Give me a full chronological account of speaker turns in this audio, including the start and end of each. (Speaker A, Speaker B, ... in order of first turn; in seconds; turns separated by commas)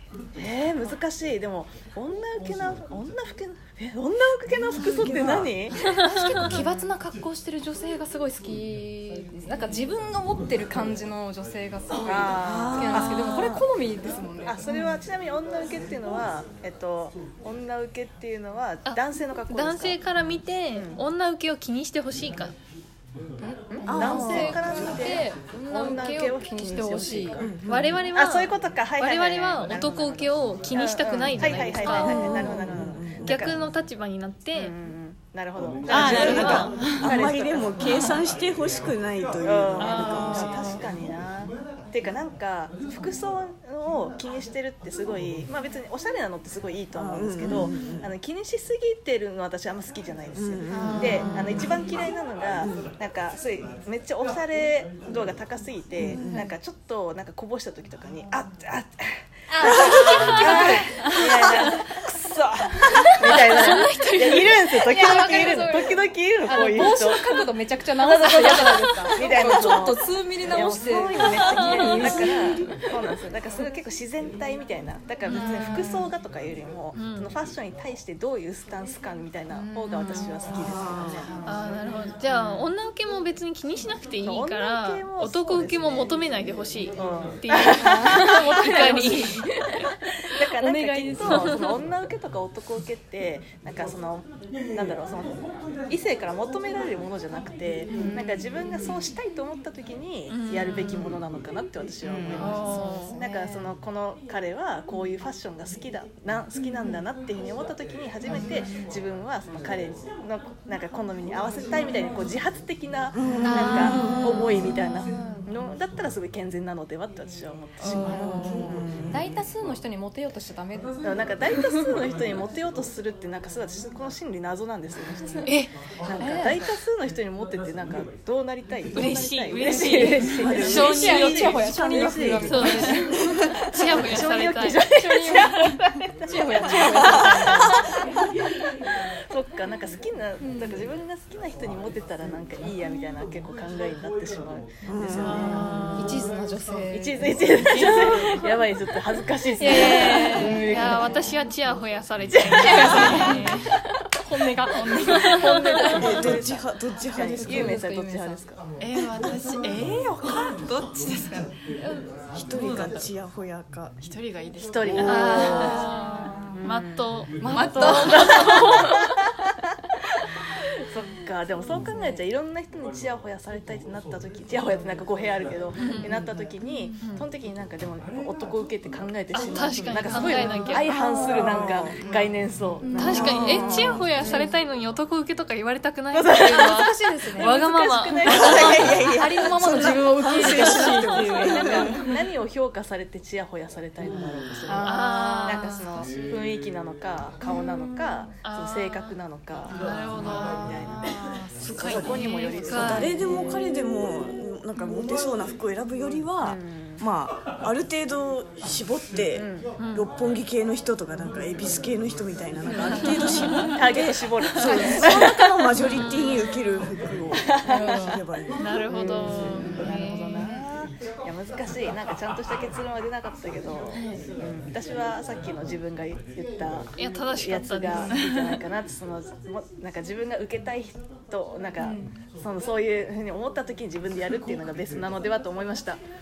Speaker A: 0.3-6.6, Speaker B: 4.8-5.5, Speaker C: 5.8-6.6, Speaker D: 6.1-14.6, Speaker A: 11.9-13.7, Speaker B: 12.4-13.5, Speaker A: 14.4-20.0, Speaker C: 14.7-14.9, Speaker C: 18.9-22.5, Speaker A: 20.8-21.0, Speaker D: 23.4-27.4, Speaker A: 23.8-27.6, Speaker B: 23.9-25.0, Speaker B: 27.4-28.0, Speaker C: 27.7-32.6, Speaker A: 28.1-33.6, Speaker B: 31.9-33.5, Speaker C: 33.2-34.8, Speaker A: 34.5-37.7, Speaker E: 35.9-37.2, Speaker B: 36.0-40.9, Speaker C: 36.2-36.8, Speaker A: 39.4-81.3, Speaker C: 39.8-40.6, Speaker B: 46.9-48.1, Speaker B: 50.4-51.4, Speaker C: 51.0-51.4, Speaker B: 52.6-52.9, Speaker B: 56.0-56.5, Speaker D: 59.5-61.8, Speaker C: 60.1-60.8, Speaker C: 63.2-64.6, Speaker D: 63.3-73.0, Speaker C: 71.2-72.1, Speaker B: 72.0-72.3, Speaker C: 75.3-76.1, Speaker D: 75.4-75.8, Speaker C: 76.9-77.4, Speaker C: 79.7-80.4, Speaker B: 80.6-81.2, Speaker C: 81.4-89.9, Speaker A: 82.3-82.7, Speaker A: 84.2-86.2, Speaker A: 87.0-89.5, Speaker D: 87.7-89.8, Speaker A: 90.3-95.4, Speaker D: 90.5-91.7, Speaker A: 95.9-118.9, Speaker D: 97.9-98.5, Speaker C: 100.3-101.1, Speaker E: 102.0-103.2, Speaker C: 102.4-103.3, Speaker B: 113.1-114.6, Speaker C: 113.4-115.3, Speaker D: 114.0-114.2, Speaker D: 115.1-115.5, Speaker B: 118.0-119.4, Speaker D: 118.0-121.9, Speaker A: 121.0-125.5, Speaker C: 125.5-125.7, Speaker A: 126.0-133.0, Speaker D: 126.2-126.7, Speaker C: 128.9-131.5, Speaker D: 129.0-133.5, Speaker B: 130.4-132.5, Speaker C: 132.4-133.0, Speaker B: 133.3-133.7, Speaker C: 133.7-134.8, Speaker A: 133.9-137.8, Speaker D: 134.9-137.8, Speaker B: 136.9-137.8, Speaker A: 139.3-145.9, Speaker D: 140.4-140.9, Speaker B: 144.9-146.1, Speaker C: 145.6-146.1, Speaker D: 145.9-148.3, Speaker A: 146.9-151.1, Speaker D: 149.6-151.0, Speaker C: 149.8-153.8, Speaker A: 152.3-153.4, Speaker D: 152.6-156.4, Speaker E: 154.7-155.5, Speaker A: 155.1-158.6, Speaker C: 155.6-155.9, Speaker B: 155.9-157.8, Speaker D: 157.2-158.4, Speaker E: 158.8-161.5, Speaker A: 160.2-160.4, Speaker B: 162.3-163.9, Speaker E: 162.5-163.1, Speaker E: 164.0-165.6, Speaker A: 164.6-165.9, Speaker B: 165.0-165.8, Speaker C: 165.0-168.6, Speaker D: 165.6-166.5, Speaker A: 166.5-167.1, Speaker D: 167.4-169.1, Speaker A: 167.8-169.2, Speaker A: 170.9-183.9, Speaker C: 175.8-176.2, Speaker C: 177.0-177.3, Speaker C: 179.3-180.9, Speaker D: 180.0-181.9, Speaker B: 181.4-181.9, Speaker E: 182.0-182.3, Speaker D: 182.8-184.6, Speaker C: 182.9-189.0, Speaker B: 183.0-184.1, Speaker A: 186.1-189.2, Speaker D: 186.4-187.6, Speaker B: 188.2-191.9, Speaker D: 188.8-192.2, Speaker A: 190.4-203.3, Speaker E: 194.7-195.4, Speaker C: 194.8-196.1, Speaker C: 197.5-203.2, Speaker B: 201.6-218.6, Speaker A: 206.1-207.0, Speaker A: 209.3-209.7, Speaker C: 209.8-210.1, Speaker C: 213.0-213.7, Speaker A: 213.6-215.6, Speaker D: 214.6-215.4, Speaker C: 215.8-216.6, Speaker A: 217.5-218.1, Speaker D: 217.7-218.2, Speaker C: 218.6-220.6, Speaker A: 218.9-236.0, Speaker C: 227.0-228.1, Speaker E: 228.1-228.6, Speaker D: 231.8-232.1